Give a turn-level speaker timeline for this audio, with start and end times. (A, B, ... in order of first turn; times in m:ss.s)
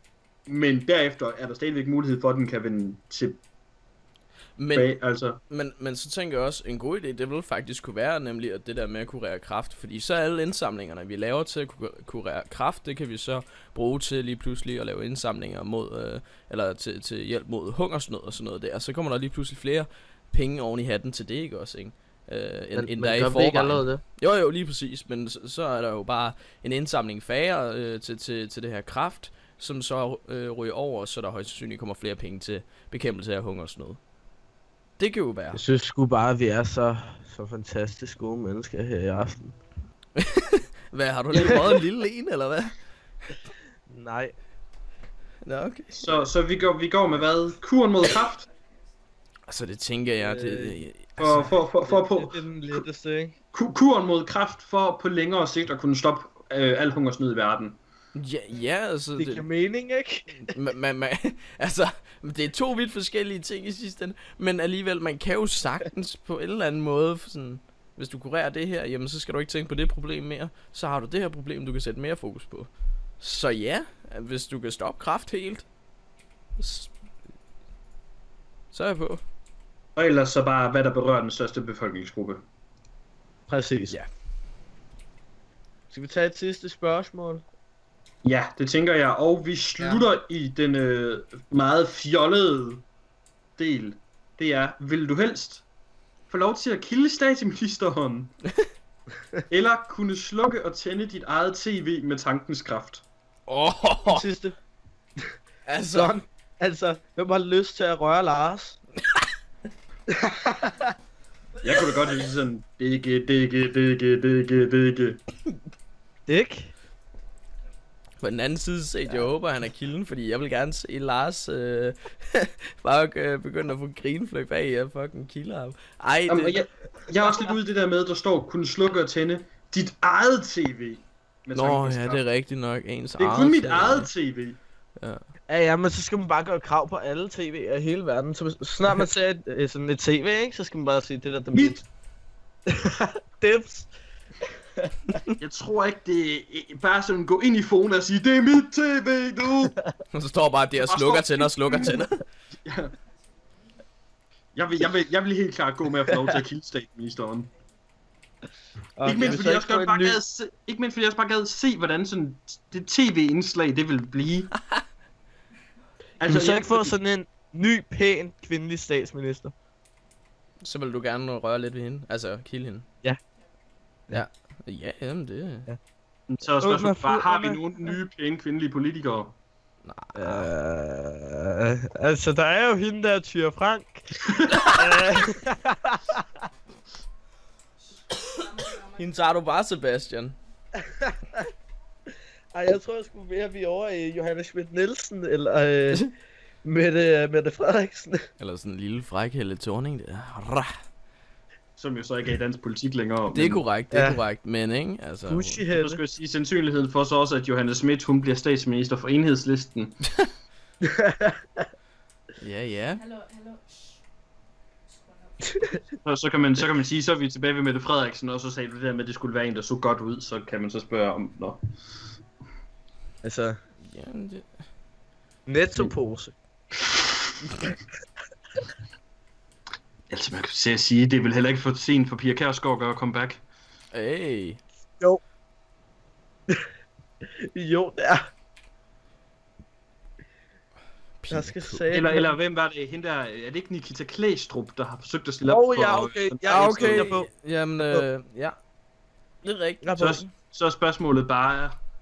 0:00.5-0:03.4 A
0:04.6-0:04.9 B
0:04.7-0:05.4 A
0:05.5-0:34.0 B
0:22.8-0:24.0 C
0:35.0-0:35.6 B
0:35.5-0:39.6 C
0:40.2-0:42.7 B
0:41.3-0:41.6 A
0:43.9-0:44.3 C
0:45.4-0:46.0 B
0:46.0-0:48.5 A
0:49.5-0:51.5 B
0:50.2-0:50.9 C
0:51.2-0:52.8 A
0:51.8-0:53.4 C
0:53.5-0:57.8 A
0:58.2-0:59.5 B
0:59.2-1:00.6 C
1:00.3-1:12.7 B
1:13.2-1:15.6 B
1:16.6-1:16.9 B
1:18.7-1:19.2 B
1:20.0-1:22.4 A
1:23.5-1:24.0 C
1:25.9-1:27.4 C
1:28.2-1:32.8 A
1:29.8-1:30.1 C
1:33.6-1:35.6 A
1:36.3-1:38.4 A
1:39.5-1:43.0 A
1:43.5-1:44.2 B
1:44.1-1:44.6 C
1:45.6-1:46.2 B
1:45.9-1:48.8 C
1:50.2-1:50.9 C
1:51.6-1:55.2 A
1:56.3-1:56.7 C
1:58.2-2:06.6 B
2:06.3-2:12.2 A
2:11.5-2:14.1 B
2:13.2-2:14.6 A
2:15.5-2:21.8 C
2:21.5-2:21.8 A
2:22.7-2:23.9 C
2:25.4-2:29.7 A
2:30.1-2:32.2 B
2:30.8-2:32.0 A
2:32.6-2:32.9 A
2:34.6-2:37.5 A
2:39.0-2:40.2 C
2:39.0-2:44.5 A
2:46.2-2:46.9 A
2:46.2-2:49.5 C
2:50.6-2:52.9 B
2:54.1-2:55.7 B
2:56.3-2:59.4 A
2:56.6-2:57.7 C
2:59.8-3:00.5 B
3:00.1-3:06.2 C
3:04.4-3:04.7 A
3:08.5-3:10.4 B
3:10.8-3:11.4 C
3:12.5-3:16.1 C
3:16.6-3:18.2 C
3:18.4-3:20.7 B
3:21.8-3:23.6 A
3:23.3-3:25.6 B
3:23.9-3:24.2 C
3:25.2-3:26.0 C
3:25.7-3:30.0 A
3:30.8-3:31.4 C
3:32.4-3:33.1 B
3:36.0-3:41.6 A
3:43.2-3:43.6 C
3:43.8-3:44.4 B
3:45.5-3:46.4 C
3:50.1-3:53.4 A
3:53.9-3:54.6 B
3:57.4-3:58.2 C
4:01.2-4:01.8 B
4:01.3-4:02.4 C
4:01.9-4:07.1 A
4:05.4-4:08.1 C
4:06.5-4:08.6 B
4:09.4-4:10.3 B
4:09.8-4:10.2 C
4:10.0-4:11.8 A